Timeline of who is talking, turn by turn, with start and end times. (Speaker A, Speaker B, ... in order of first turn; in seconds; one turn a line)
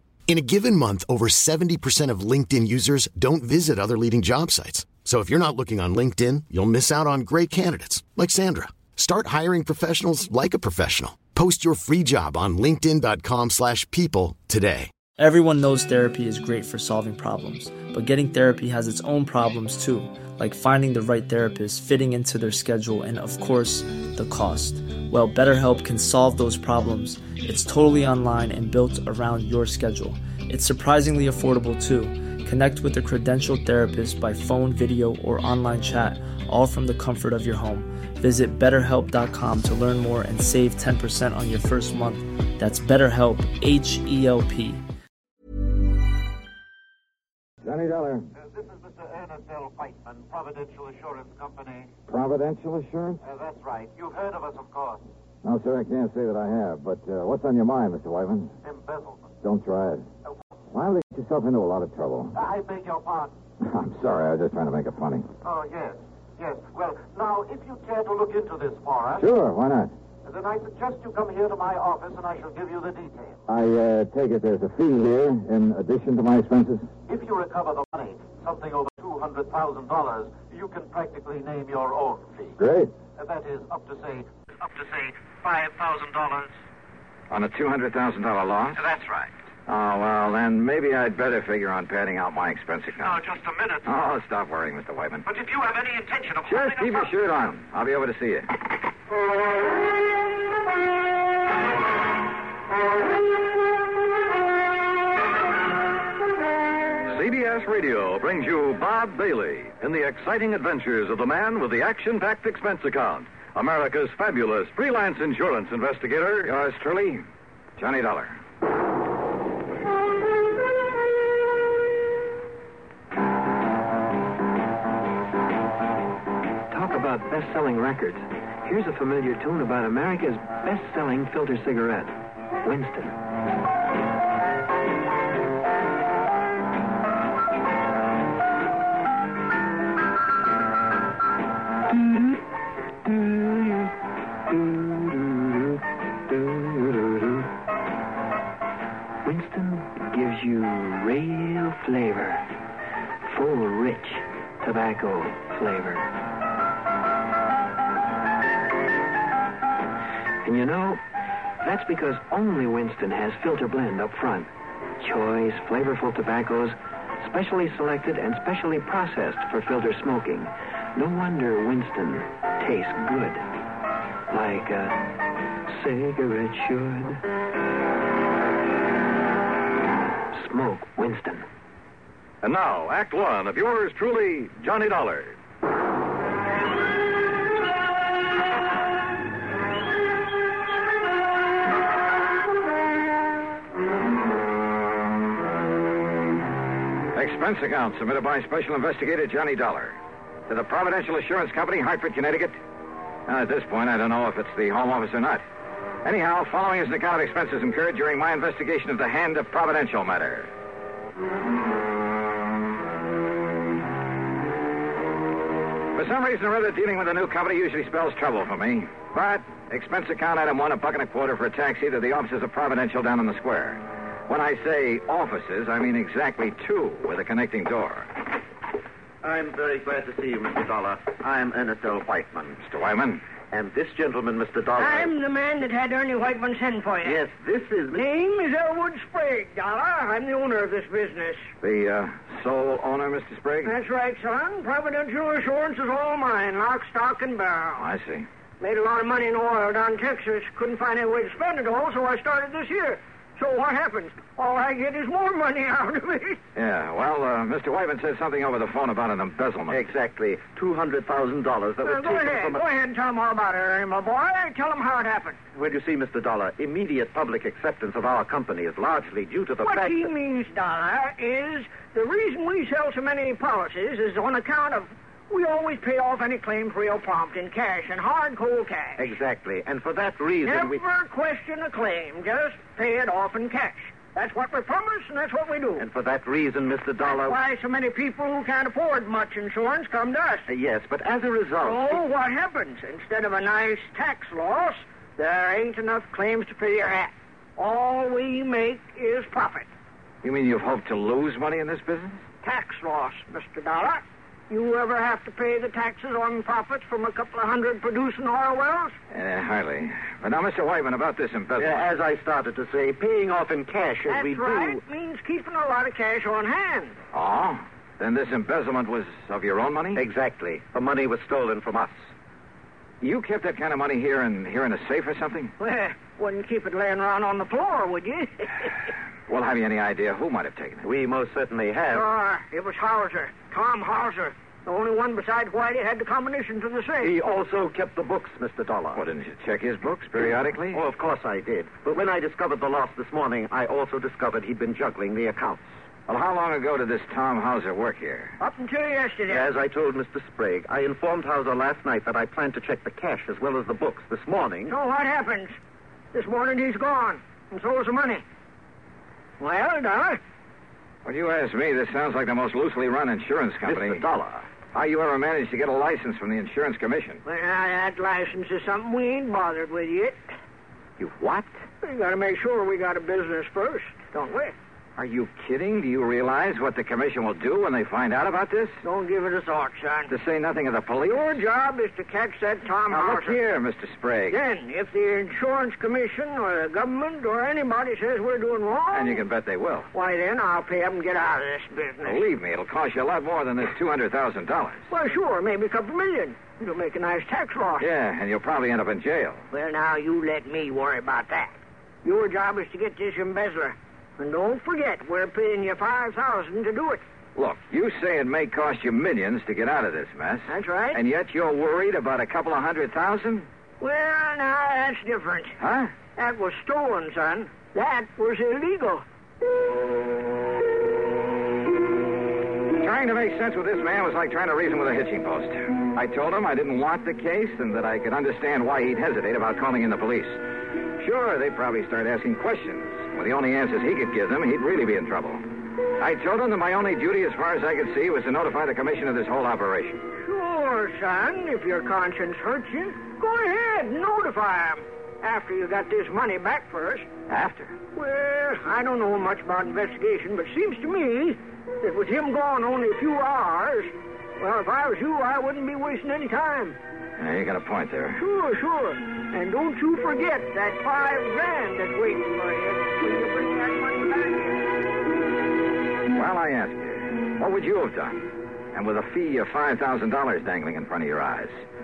Speaker A: 0.3-14.9
Speaker B: 15.2-44.8
Speaker C: 47.6-48.3
Speaker D: 48.6-51.9
Speaker C: 52.1-53.2
Speaker D: 53.3-55.0
Speaker C: 55.4-58.5
Speaker D: 58.6-59.2
Speaker C: 59.4-60.1
Speaker C: 60.7-62.4
Speaker D: 62.5-63.3
Speaker C: 63.6-65.3
Speaker D: 65.4-69.1
Speaker C: 69.2-70.0
Speaker D: 70.2-73.3
Speaker C: 73.5-76.9
Speaker D: 77.1-82.5
Speaker C: 82.6-82.9
Speaker D: 83.2-86.5
Speaker C: 87.3-88.8
Speaker D: 88.8-89.3
Speaker C: 89.7-93.2
Speaker D: 93.1-93.8
Speaker C: 93.8-95.3
Speaker D: 95.3-97.0
Speaker C: 96.5-98.6
Speaker E: 107.1-116.5
Speaker C: 116.4-117.2
Speaker C: 117.8-118.4
Speaker F: 126.7-133.2
Speaker F: 141.9-142.4
Speaker F: 143.0-143.9
Speaker F: 144.4-147.5
Speaker F: 149.2-152.6
Speaker F: 153.2-156.1
Speaker F: 160.4-161.0
Speaker F: 161.6-173.5
Speaker F: 174.3-177.2
Speaker F: 180.3-181.5
Speaker E: 182.4-185.3
Speaker C: 197.1-202.6
Speaker C: 203.2-205.4
Speaker C: 206.0-210.5
Speaker C: 215.9-228.1
Speaker G: 229.2-232.6
Speaker C: 232.6-233.2
Speaker G: 233.5-235.1
Speaker H: 234.8-237.2
Speaker G: 237.0-238.0
Speaker H: 237.9-241.5
Speaker C: 241.6-243.7
Speaker H: 243.6-247.9
Speaker C: 247.8-248.3
Speaker H: 248.6-256.4
Speaker C: 256.5-259.8
Speaker G: 259.7-262.7
Speaker H: 261.8-265.4
Speaker G: 265.5-270.1
Speaker H: 269.6-279.0
Speaker G: 279.0-280.8
Speaker H: 280.4-285.9
Speaker G: 285.8-287.4
Speaker H: 287.0-290.5
Speaker G: 290.5-292.0
Speaker H: 291.6-299.7
Speaker C: 300.2-302.2
Speaker H: 302.4-308.9
Speaker C: 309.1-311.9
Speaker G: 311.6-314.8
Speaker H: 314.1-316.9
Speaker C: 317.1-320.0
Speaker G: 319.9-321.9
Speaker C: 323.0-325.5
Speaker H: 325.6-328.7
Speaker C: 329.3-330.9
Speaker G: 330.8-332.1
Speaker H: 331.9-337.1
Speaker G: 337.0-339.0
Speaker C: 338.9-340.8
Speaker G: 340.7-345.7
Speaker C: 346.1-348.4
Speaker H: 348.4-349.5
Speaker G: 349.3-354.7
Speaker H: 354.7-355.5
Speaker H: 356.1-358.2
Speaker H: 359.4-360.2
Speaker C: 361.0-364.0
Speaker G: 363.6-364.4
Speaker C: 364.7-367.2
Speaker H: 367.2-370.2
Speaker C: 371.0-371.5
Speaker H: 371.8-374.5
Speaker C: 374.9-378.8
Speaker H: 378.8-380.1
Speaker C: 380.1-381.4
Speaker H: 381.1-383.4
Speaker C: 382.9-384.4
Speaker H: 384.3-389.2
Speaker C: 388.9-389.9
Speaker H: 389.9-392.2
Speaker C: 392.0-394.9
Speaker H: 394.9-397.9
Speaker C: 397.8-399.4
Speaker H: 399.5-407.0
Speaker C: 407.4-413.5
Speaker H: 410.5-411.0
Speaker H: 413.8-415.6
Speaker C: 415.6-415.9
Speaker H: 416.1-419.0
Speaker C: 422.8-430.4
Speaker C: 431.0-435.4
Speaker C: 436.0-440.0
Speaker H: 440.1-447.1
Speaker C: 447.3-447.8
Speaker H: 447.9-456.8
Speaker C: 457.2-458.2
Speaker H: 458.2-464.7
Speaker C: 466.1-471.6